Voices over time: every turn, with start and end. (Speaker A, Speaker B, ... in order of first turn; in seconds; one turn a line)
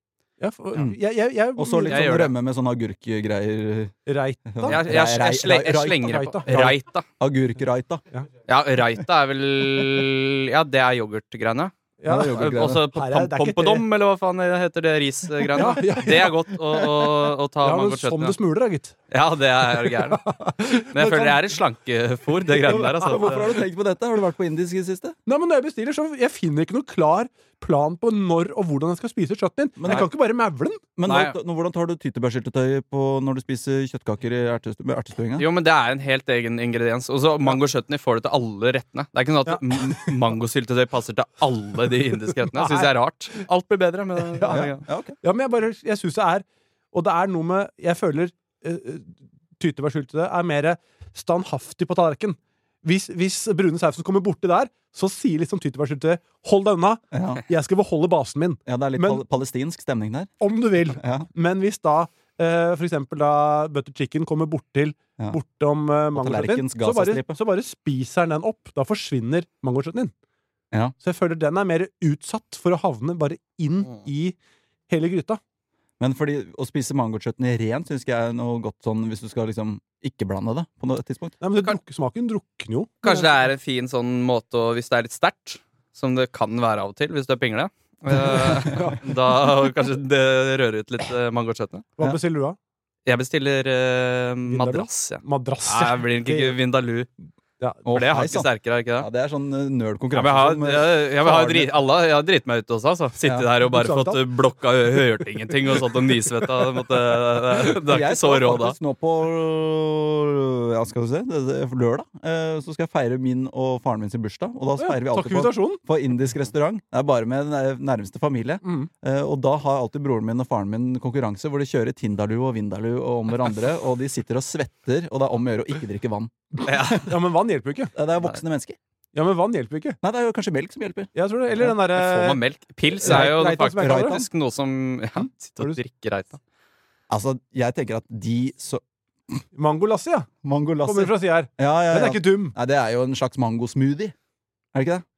Speaker A: 0.4-2.3
Speaker B: 1.6-8.0
Speaker C: 1.9-2.3
Speaker A: 4.1-4.8
Speaker C: 4.7-7.1
Speaker A: 6.0-6.5
Speaker C: 8.5-11.7
Speaker A: 12.0-13.8
Speaker B: 12.1-12.8
Speaker C: 12.3-18.4
Speaker A: 15.6-16.4
Speaker A: 17.6-18.9
Speaker C: 19.1-23.5
Speaker A: 20.1-21.4
Speaker B: 22.7-25.2
Speaker A: 25.3-30.8
Speaker B: 29.8-30.1
Speaker B: 31.0-35.5
Speaker C: 31.1-31.4
Speaker C: 35.4-44.8
Speaker A: 39.5-40.1
Speaker A: 42.5-42.9
Speaker A: 44.3-44.7
Speaker B: 44.5-45.2
Speaker A: 45.2-59.2
Speaker B: 57.1-57.4
Speaker B: 58.7-60.3
Speaker A: 60.4-70.1
Speaker B: 60.9-61.3
Speaker B: 66.1-67.4
Speaker A: 71.0-74.4
Speaker A: 74.9-75.4
Speaker B: 76.0-81.4
Speaker A: 81.4-83.3
Speaker C: 83.0-91.9
Speaker A: 88.5-89.0
Speaker A: 92.0-92.6
Speaker C: 93.1-97.1
Speaker A: 94.5-96.6
Speaker B: 97.9-101.7
Speaker C: 97.9-99.1
Speaker C: 100.1-108.8
Speaker B: 103.2-103.5
Speaker A: 103.7-104.2
Speaker B: 107.8-127.0
Speaker A: 114.8-115.8
Speaker A: 118.6-118.9
Speaker C: 126.7-127.1
Speaker A: 127.0-127.9
Speaker B: 128.0-128.8
Speaker A: 129.1-130.0
Speaker B: 130.0-131.1
Speaker A: 131.2-132.4
Speaker C: 131.7-136.4
Speaker A: 133.0-134.2
Speaker B: 133.0-134.3
Speaker A: 135.2-135.8
Speaker B: 137.1-139.4
Speaker A: 139.6-140.3
Speaker B: 140.4-144.2
Speaker A: 140.8-142.6
Speaker B: 144.7-145.1